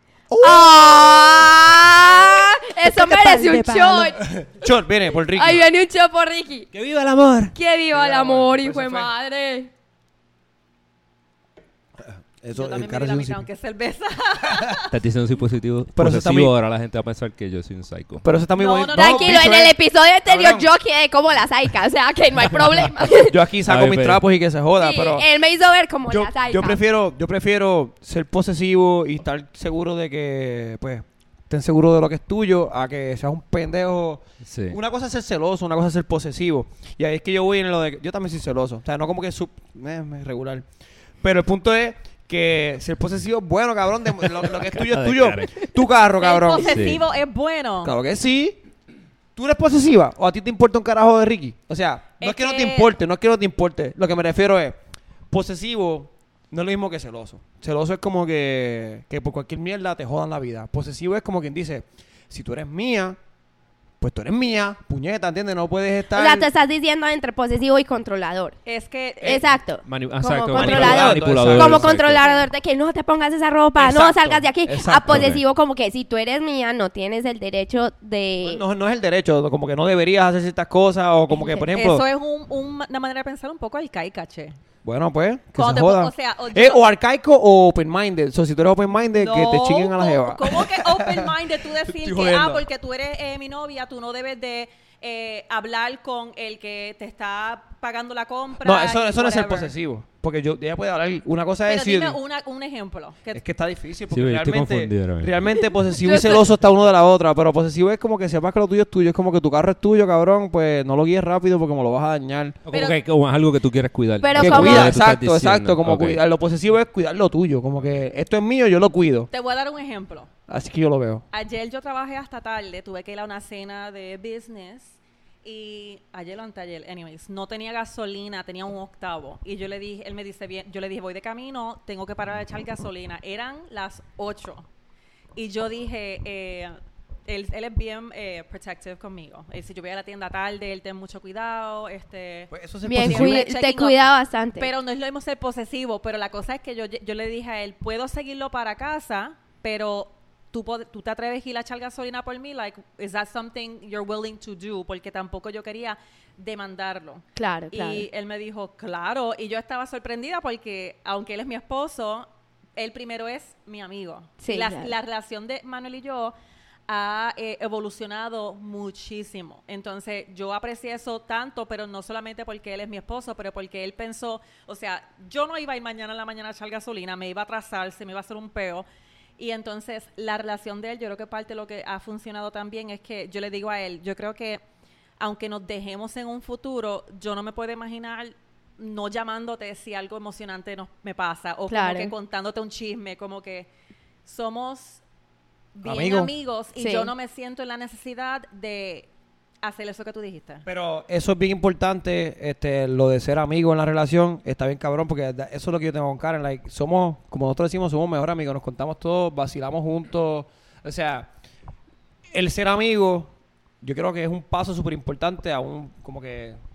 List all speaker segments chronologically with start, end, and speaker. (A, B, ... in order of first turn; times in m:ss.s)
0:00.3-0:01.4 A
0:00.4-0:04.2 B
0:03.2-0:03.9 C
0:04.2-0:05.7 A
0:05.3-0:06.7 B
0:06.7-0:07.5 D
0:07.6-0:09.7 B
0:07.9-0:09.1 A
0:12.4-0:13.4 A
0:12.5-0:14.9 C
0:14.9-0:18.2 D
0:16.0-0:16.5 A
0:18.2-0:20.7 A
0:18.6-0:19.4 C
0:18.9-0:23.4 B
0:23.1-0:25.3 A
0:23.7-0:24.2 D
0:24.8-0:26.8 B
0:26.1-0:40.6 A
0:34.4-0:34.8 D
0:41.2-0:46.7 A
0:44.6-0:45.7 D
0:46.2-0:47.9 C
0:46.6-0:47.0 D
0:47.8-0:48.6 A
0:49.4-0:54.8 A
0:52.2-0:52.9 C
0:55.3-1:03.2 A
1:04.0-1:06.5 A
1:06.1-1:08.6 B
1:08.7-1:09.4 C
1:09.2-1:18.6 B
1:09.8-1:12.3 D
1:10.5-1:12.0 A
1:12.2-1:12.5 C
1:13.8-1:15.3 A
1:15.1-1:15.4 D
1:18.4-1:22.0 A
1:21.3-1:21.7 B
1:21.7-1:24.6 C
1:24.8-1:31.3 A
1:25.6-1:26.8 C
1:29.0-1:39.7 C
1:31.9-1:32.6 A
1:38.6-1:42.2 A
1:41.7-1:43.4 C
1:43.3-1:52.6 A
1:44.1-1:45.6 D
1:46.0-1:46.5 B
1:52.7-1:56.2 D
1:52.7-1:53.0 C
1:54.2-1:55.0 B
1:54.3-1:59.3 A
1:59.3-2:00.3 C
2:00.5-2:01.2 A
2:01.3-2:14.7 C
2:15.4-2:16.8 C
2:17.3-2:24.0 C
2:22.5-2:23.4 A
2:22.9-2:24.7 B
2:24.6-2:46.3 C
2:37.4-2:38.1 B
2:44.4-2:44.9 B
2:46.9-2:58.9 C
2:59.4-3:04.6 C
3:05.2-3:13.7 C
3:11.7-3:12.1 B
3:14.2-3:15.0 C
3:15.8-3:19.1 C
3:15.8-3:16.3 A
3:16.8-3:17.1 B
3:19.6-3:20.6 C
3:20.6-3:31.3 A
3:32.3-3:36.6 A